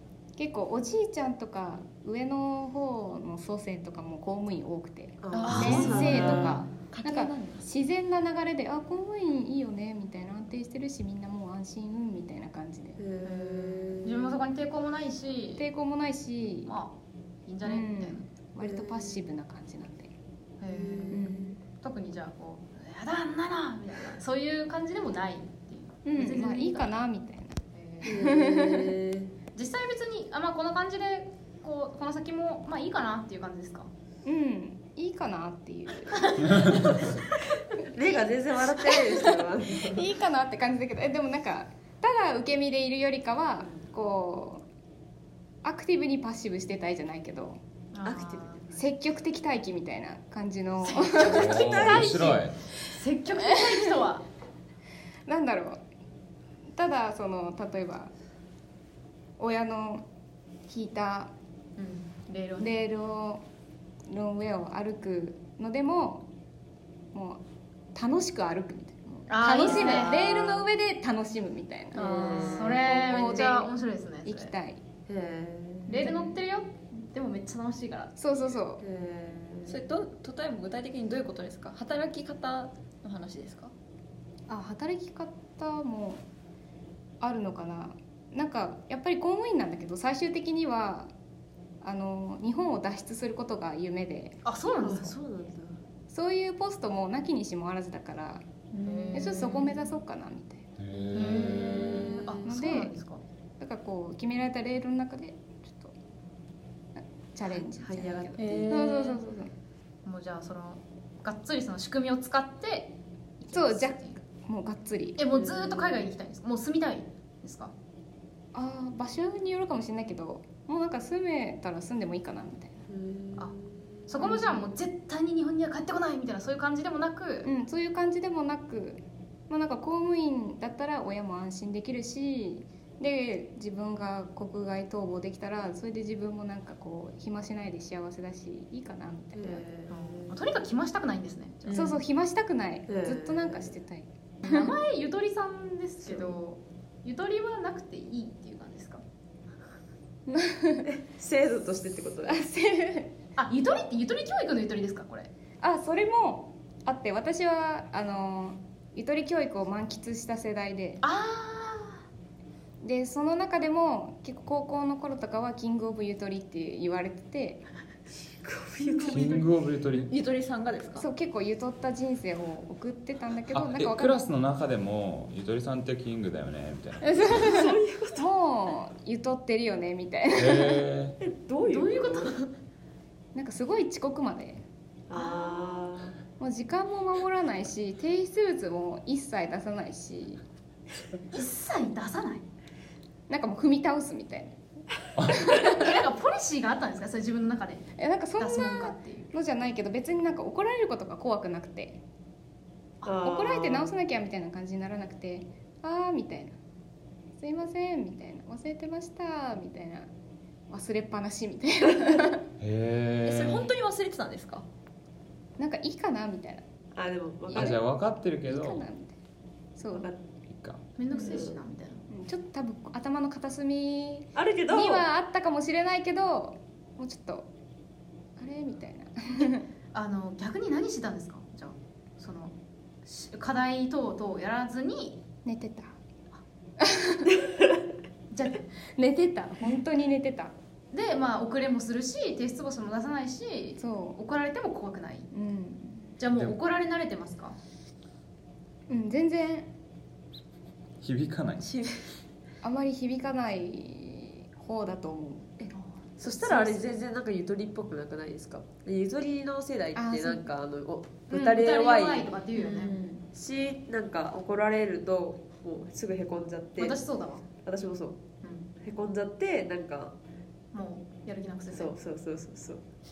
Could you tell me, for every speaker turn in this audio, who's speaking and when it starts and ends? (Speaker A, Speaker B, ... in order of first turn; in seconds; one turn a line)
Speaker A: 0.3-13.0
Speaker B: 5.2-6.6
Speaker C: 5.3-7.6
Speaker D: 5.4-6.2
Speaker B: 13.0-14.4
Speaker D: 13.2-15.6
Speaker A: 15.6-16.7
Speaker D: 16.7-18.2
Speaker A: 17.6-20.1
Speaker B: 18.6-19.2
Speaker D: 20.6-26.9
Speaker B: 20.7-21.5
Speaker A: 21.1-21.6
Speaker A: 26.0-28.9
Speaker D: 27.7-28.3
Speaker B: 28.0-29.3
Speaker D: 29.5-33.9
Speaker A: 34.2-36.9
Speaker D: 36.2-37.1
Speaker B: 37.9-40.1
Speaker A: 38.8-39.2
Speaker A: 39.7-44.6
Speaker A: 45.6-47.6
Speaker D: 47.9-48.6
Speaker B: 48.0-48.5
Speaker A: 48.7-51.6
Speaker D: 50.8-54.2
Speaker E: 51.2-52.5
Speaker B: 51.2-52.4
Speaker A: 53.4-53.9
Speaker A: 55.2-55.8
Speaker A: 56.7-58.1
Speaker A: 59.4-60.1
Speaker A: 60.7-61.3
Speaker D: 61.8-62.8
Speaker A: 62.6-63.4
Speaker A: 64.1-66.3
Speaker A: 67.1-67.4
Speaker A: 67.9-72.3
Speaker D: 69.3-70.6
Speaker B: 69.7-70.3
Speaker B: 71.9-73.5
Speaker C: 71.9-72.7
Speaker D: 72.3-74.5
Speaker A: 72.9-73.7
Speaker A: 74.2-74.8
Speaker B: 75.1-76.1
Speaker D: 75.9-78.2
Speaker A: 76.0-76.3
Speaker A: 78.2-78.8
Speaker B: 78.8-79.8
Speaker C: 79.7-83.7
Speaker A: 84.5-86.2
Speaker A: 87.2-91.1
Speaker A: 91.8-94.4
Speaker D: 94.4-95.2
Speaker B: 94.8-95.8
Speaker A: 96.1-98.4
Speaker C: 98.7-99.5
Speaker D: 98.8-99.7
Speaker A: 99.1-100.7
Speaker E: 100.8-101.8
Speaker D: 101.1-103.2
Speaker B: 101.1-102.4
Speaker C: 101.7-102.2
Speaker A: 102.4-102.9
Speaker A: 103.6-105.9
Speaker A: 106.9-109.5
Speaker B: 107.8-108.8
Speaker C: 108.3-109.2
Speaker D: 110.0-114.2
Speaker A: 113.5-115.2
Speaker D: 115.2-117.7
Speaker B: 115.3-116.0
Speaker A: 118.5-122.8
Speaker B: 122.9-124.0
Speaker D: 124.1-127.5
Speaker A: 124.2-124.7
Speaker A: 127.4-139.6
Speaker B: 139.3-140.3
Speaker D: 139.9-141.9
Speaker B: 141.7-141.9
Speaker A: 141.7-144.7
Speaker B: 142.9-143.7
Speaker D: 144.4-149.0
Speaker B: 146.0-146.3
Speaker A: 150.3-150.9
Speaker B: 150.8-152.4
Speaker A: 152.3-153.1
Speaker D: 153.4-155.3
Speaker A: 155.6-161.0
Speaker D: 161.0-162.0
Speaker A: 162.8-167.6
Speaker B: 168.4-169.4
Speaker D: 168.8-169.3
Speaker E: 169.1-170.1
Speaker C: 170.1-171.1
Speaker A: 171.0-174.2
Speaker E: 173.5-177.4
Speaker A: 177.0-180.8
Speaker B: 177.4-178.3
Speaker E: 180.3-181.2
Speaker B: 181.2-182.3
Speaker D: 181.6-182.4
Speaker A: 183.3-184.6
Speaker B: 185.1-186.2
Speaker D: 185.1-185.8
Speaker A: 186.4-190.4
Speaker D: 191.3-192.4
Speaker A: 193.3-194.6
Speaker E: 195.2-195.4
Speaker A: 195.3-195.8
Speaker D: 195.5-199.3
Speaker A: 198.0-202.0
Speaker B: 203.0-203.9
Speaker A: 203.2-206.6
Speaker A: 207.4-210.1
Speaker A: 210.7-212.4
Speaker E: 212.6-213.7
Speaker C: 213.2-214.6
Speaker A: 215.6-216.6
Speaker B: 216.9-217.8
Speaker E: 217.5-218.8
Speaker A: 217.5-217.8
Speaker A: 218.4-219.2
Speaker A: 219.8-220.1
Speaker B: 219.9-220.2
Speaker E: 220.5-220.8
Speaker D: 221.0-222.0
Speaker B: 221.1-221.6
Speaker A: 222.1-227.5
Speaker B: 224.3-225.1
Speaker A: 228.4-229.6
Speaker D: 229.9-235.2
Speaker A: 235.4-236.0
Speaker A: 236.8-237.4
Speaker D: 238.3-238.6
Speaker A: 239.0-240.5
Speaker D: 240.9-245.3
Speaker A: 243.8-244.2
Speaker A: 245.3-246.1
Speaker D: 246.2-247.6
Speaker A: 248.9-249.7
Speaker E: 251.0-251.7
Speaker A: 252.6-255.6
Speaker B: 256.2-262.3
Speaker A: 259.9-260.5
Speaker D: 261.3-263.0
Speaker C: 262.6-263.2
Speaker B: 263.3-267.0
Speaker D: 266.8-267.4
Speaker B: 267.6-268.2
Speaker D: 268.4-268.7
Speaker B: 268.8-270.1
Speaker D: 270.7-271.9
Speaker B: 271.7-272.8